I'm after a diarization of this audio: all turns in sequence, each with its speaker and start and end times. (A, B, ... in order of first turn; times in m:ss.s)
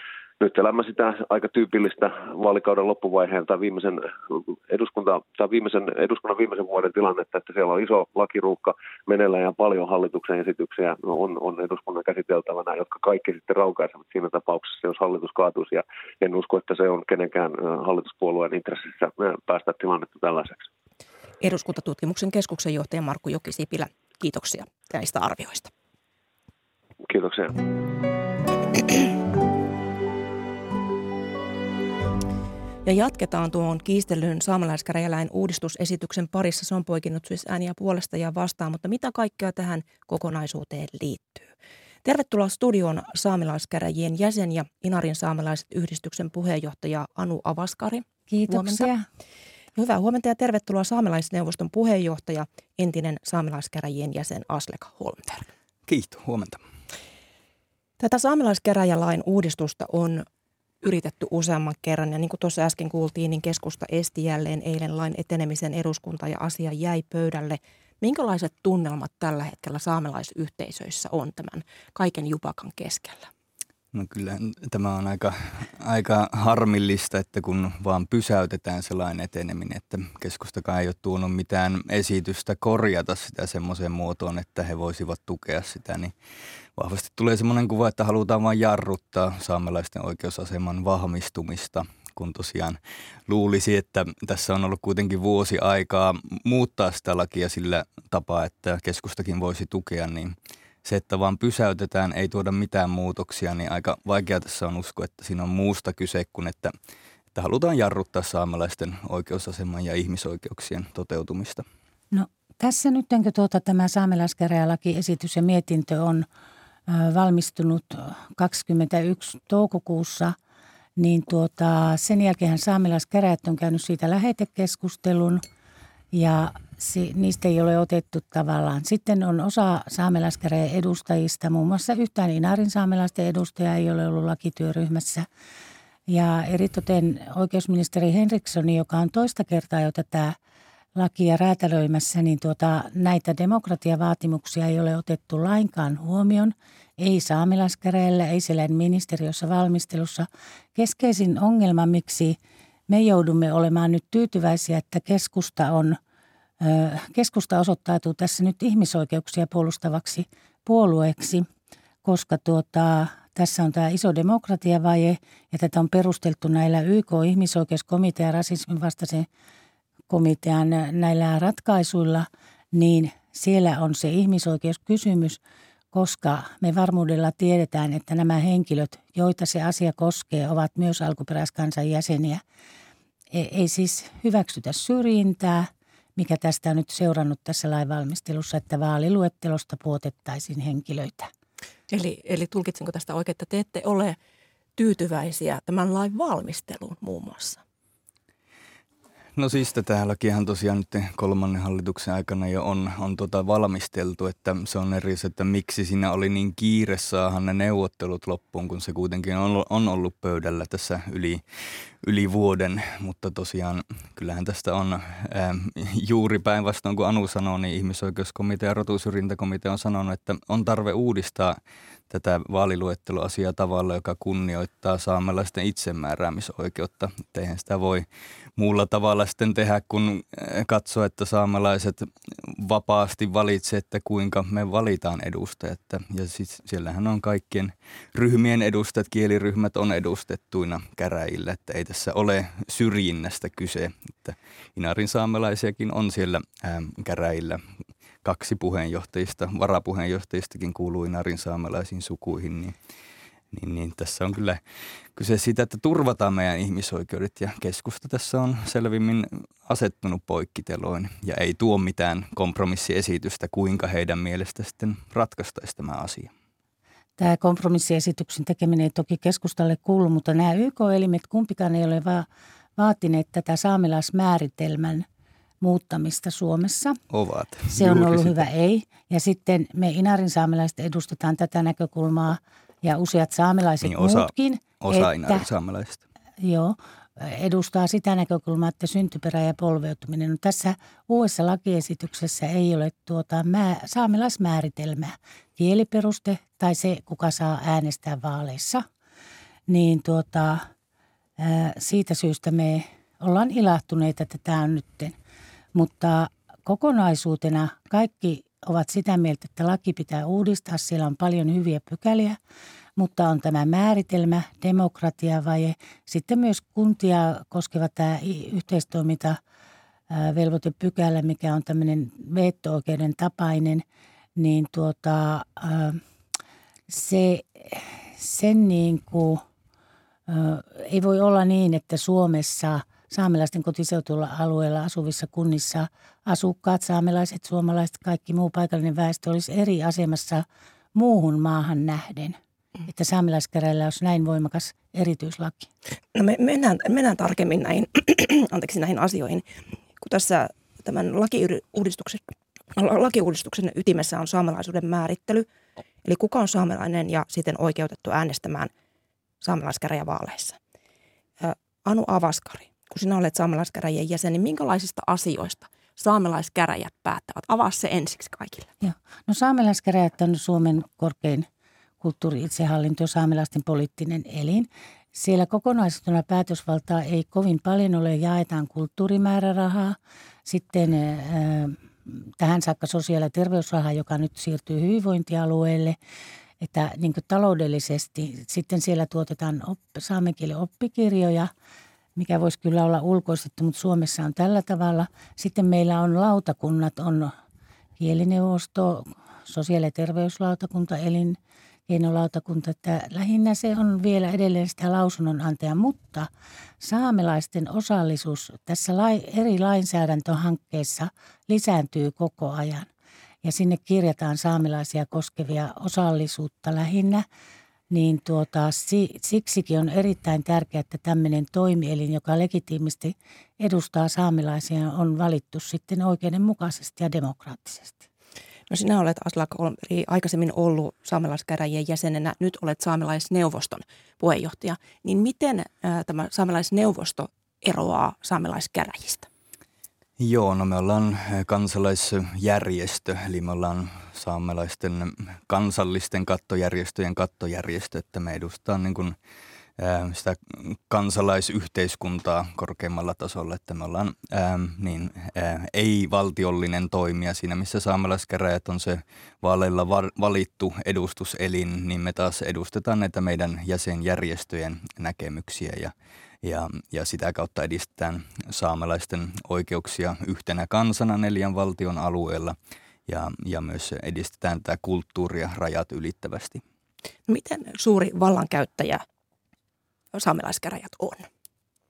0:00.4-0:20.6 A
0:21.4-0:25.7 B
0:27.1-0:27.6 A
0:32.8-0:41.5 B
0:42.0-0:48.9 B
0:48.3-0:49.0 C
0:49.7-0:55.5 B
0:55.9-0:56.6 D
0:58.0-1:00.2 B
1:00.8-1:13.3 B
1:13.9-1:26.1 D
1:26.8-1:46.7 D
1:47.3-1:51.6 D
1:52.1-1:56.2 C
1:56.9-2:00.4 C
2:01.0-2:05.4 C
2:06.1-2:15.3 C
2:16.1-2:20.4 C
2:21.0-2:32.4 C
2:32.9-2:36.0 C
2:36.6-2:41.5 C
2:42.0-2:49.3 C
2:50.1-2:55.4 C
2:55.9-3:02.4 C
3:03.3-3:11.3 C
3:11.9-3:14.2 B
3:14.8-3:17.6 B
3:19.4-3:31.4 D
3:32.0-3:48.0 D
3:48.6-4:07.6 D
4:08.2-4:12.8 D
4:13.5-4:14.6 D
4:15.1-4:26.3 D
4:27.2-4:32.2 C
4:32.8-4:35.0 C
4:35.6-4:37.0 C
4:37.1-4:38.4 D
4:37.7-4:45.5 C
4:43.8-4:46.0 D
4:46.4-4:58.8 C
4:59.7-5:00.7 C
5:01.4-5:05.1 C
5:05.7-5:12.4 C
5:13.0-5:19.4 C
5:20.1-5:23.8 C
5:24.4-5:26.0 C
5:26.9-5:29.4 C
5:30.3-5:45.7 C
5:46.1-5:55.5 B
5:56.0-5:58.7 B
5:59.4-6:00.6 B
6:01.4-6:08.7 B
6:08.8-6:11.5 C
6:12.0-6:26.0 C
6:26.6-6:31.5 C
6:32.2-6:37.3 C
6:38.0-6:46.3 C
6:46.8-6:52.9 C
6:53.4-6:57.2 C
6:57.9-7:08.0 C
7:08.7-7:19.3 B
7:20.2-7:29.2 D
7:29.8-7:52.6 D
7:53.1-7:56.6 D
7:57.3-7:59.0 B
8:00.1-8:01.3 B